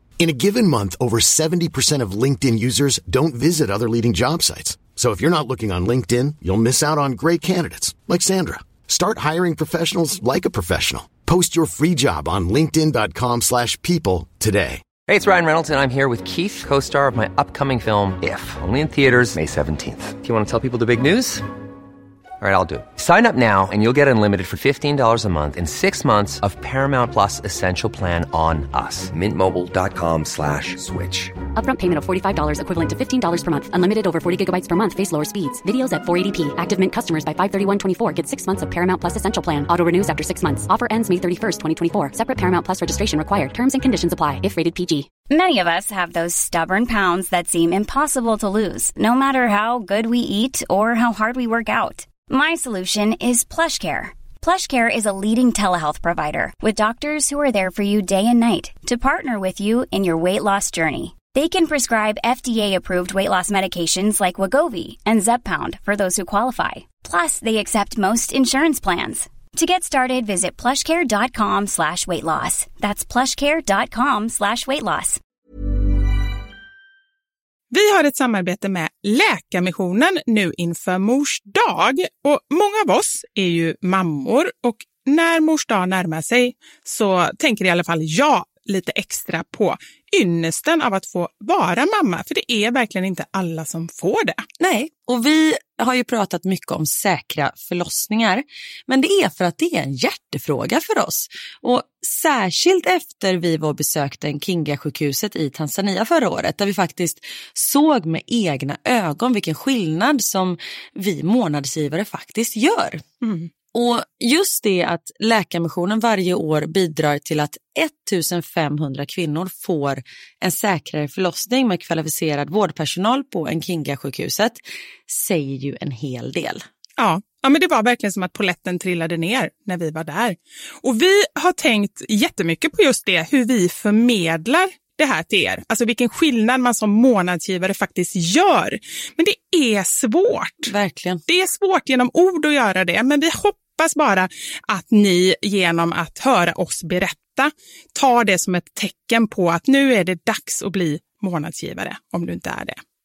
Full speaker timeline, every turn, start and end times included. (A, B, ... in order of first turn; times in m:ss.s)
0:00.2-0:14.8 A
0:15.1-0:21.5 B
0:22.4-0:31.4 B
0:31.6-0:45.1 C
0:45.3-1:15.2 D
1:17.7-1:34.4 E
1:34.6-1:53.0 F
1:53.2-1:53.5 E
1:53.7-2:06.6 F
2:07.0-2:20.7 E
2:20.7-2:21.2 F
2:21.3-2:32.8 E